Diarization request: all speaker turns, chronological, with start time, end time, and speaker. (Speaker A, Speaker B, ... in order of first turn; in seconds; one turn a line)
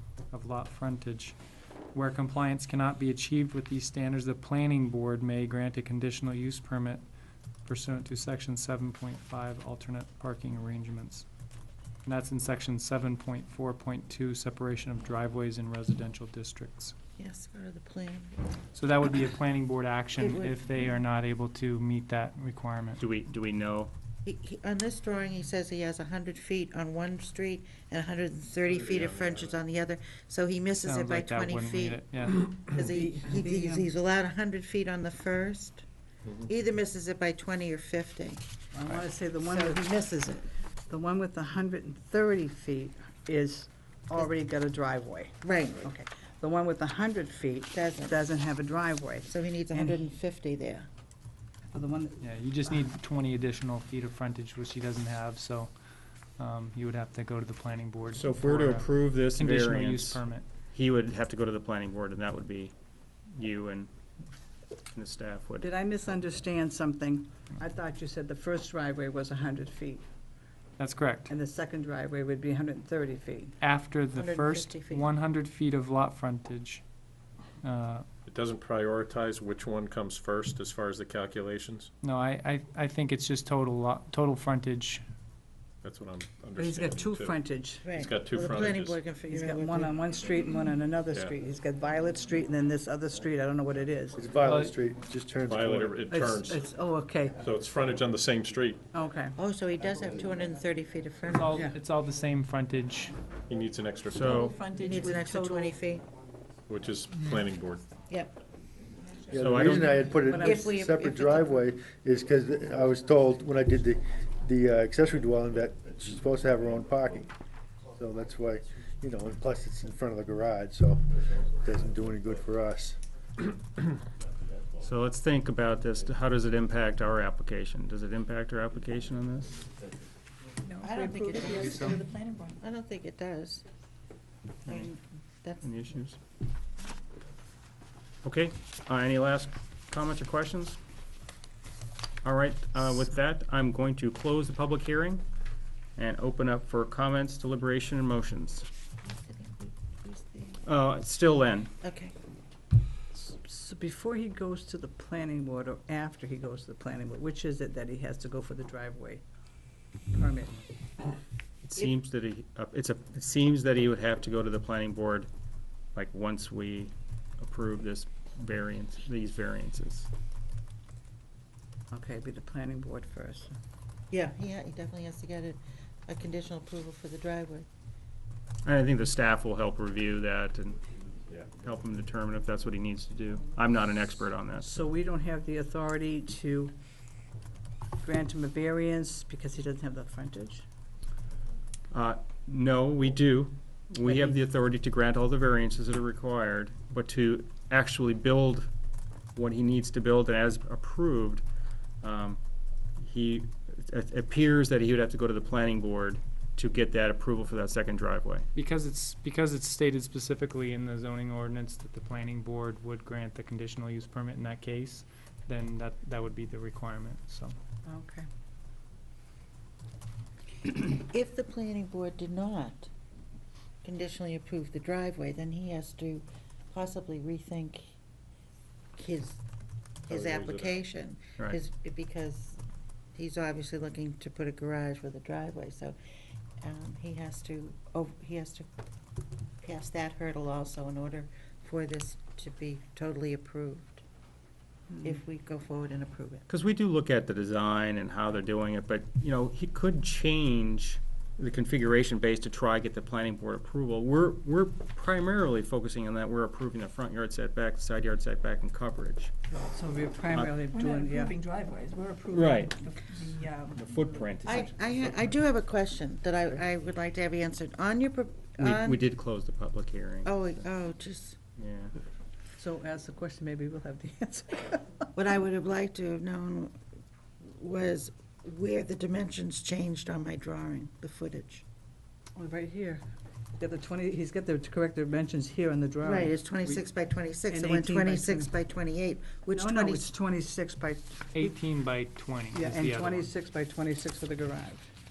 Speaker A: 0.3-1.4
Speaker A: 1.9-7.0
Speaker A: 7.7-11.3
Speaker A: 12.1-16.9
Speaker B: 17.2-18.4
Speaker A: 18.7-23.0
Speaker B: 20.2-20.8
Speaker C: 23.0-23.9
Speaker B: 24.2-35.9
Speaker A: 30.8-32.5
Speaker D: 32.8-33.9
Speaker B: 36.4-38.5
Speaker D: 38.7-40.1
Speaker B: 39.4-40.5
Speaker D: 40.9-50.1
Speaker B: 45.4-45.9
Speaker B: 47.7-48.3
Speaker B: 49.3-50.9
Speaker D: 51.7-52.7
Speaker A: 52.2-55.7
Speaker A: 56.4-60.5
Speaker C: 58.1-60.2
Speaker C: 60.7-62.7
Speaker C: 63.3-63.9
Speaker C: 64.9-65.7
Speaker D: 65.6-70.0
Speaker A: 70.8-71.3
Speaker D: 71.3-73.6
Speaker A: 73.6-76.8
Speaker B: 74.2-75.1
Speaker A: 77.6-78.1
Speaker E: 78.3-81.9
Speaker A: 82.0-85.0
Speaker E: 85.8-87.4
Speaker D: 86.6-88.0
Speaker B: 87.8-90.0
Speaker E: 87.9-89.1
Speaker D: 89.1-94.2
Speaker E: 91.1-91.4
Speaker F: 94.1-96.0
Speaker A: 94.5-94.7
Speaker E: 95.5-96.7
Speaker D: 96.1-97.5
Speaker E: 97.4-98.9
Speaker D: 98.9-99.4
Speaker B: 99.4-101.6
Speaker A: 101.3-103.2
Speaker D: 101.5-101.8
Speaker E: 103.5-104.6
Speaker C: 104.1-104.6
Speaker G: 104.7-105.1
Speaker B: 104.7-106.0
Speaker E: 106.7-107.9
Speaker B: 108.1-108.3
Speaker F: 109.3-117.3
Speaker C: 109.3-110.1
Speaker B: 109.7-111.7
Speaker D: 110.1-110.7
Speaker F: 118.0-123.0
Speaker C: 124.8-129.7
Speaker G: 130.7-132.6
Speaker B: 130.8-133.7
Speaker A: 131.6-132.0
Speaker B: 134.7-135.7
Speaker C: 135.6-136.2
Speaker C: 138.2-140.8
Speaker C: 142.2-145.2
Speaker C: 146.0-148.7
Speaker B: 149.3-150.6
Speaker C: 150.7-151.7
Speaker B: 151.8-152.2
Speaker D: 153.1-159.2
Speaker D: 160.1-160.6
Speaker C: 161.6-165.3
Speaker C: 165.9-170.1
Speaker D: 171.9-173.6
Speaker B: 174.1-177.7
Speaker C: 178.7-180.8
Speaker C: 181.5-184.8
Speaker D: 184.6-186.7
Speaker D: 188.0-190.6
Speaker C: 191.9-198.7
Speaker D: 194.1-194.3
Speaker C: 199.3-201.4
Speaker C: 202.0-202.4
Speaker C: 203.0-208.5
Speaker A: 208.6-217.6
Speaker D: 217.9-218.3
Speaker B: 220.6-222.9
Speaker B: 223.8-227.9
Speaker B: 229.0-229.4
Speaker E: 230.1-230.8
Speaker B: 230.1-232.6
Speaker B: 233.2-236.0
Speaker B: 236.6-238.7
Speaker B: 239.6-244.0
Speaker B: 245.0-246.4
Speaker C: 246.5-259.3
Speaker D: 259.6-261.4
Speaker C: 260.3-260.6
Speaker G: 260.7-263.6
Speaker C: 262.3-262.8
Speaker D: 263.1-263.8
Speaker C: 263.8-264.9
Speaker B: 264.4-269.1
Speaker C: 268.6-270.3
Speaker B: 270.2-271.4
Speaker C: 271.6-271.9
Speaker D: 272.6-275.1
Speaker B: 275.1-276.8
Speaker B: 277.4-281.6
Speaker D: 282.4-283.0
Speaker D: 283.6-286.8
Speaker B: 286.0-290.1
Speaker D: 287.4-288.5
Speaker D: 289.5-291.5
Speaker A: 291.3-293.3
Speaker D: 292.5-294.9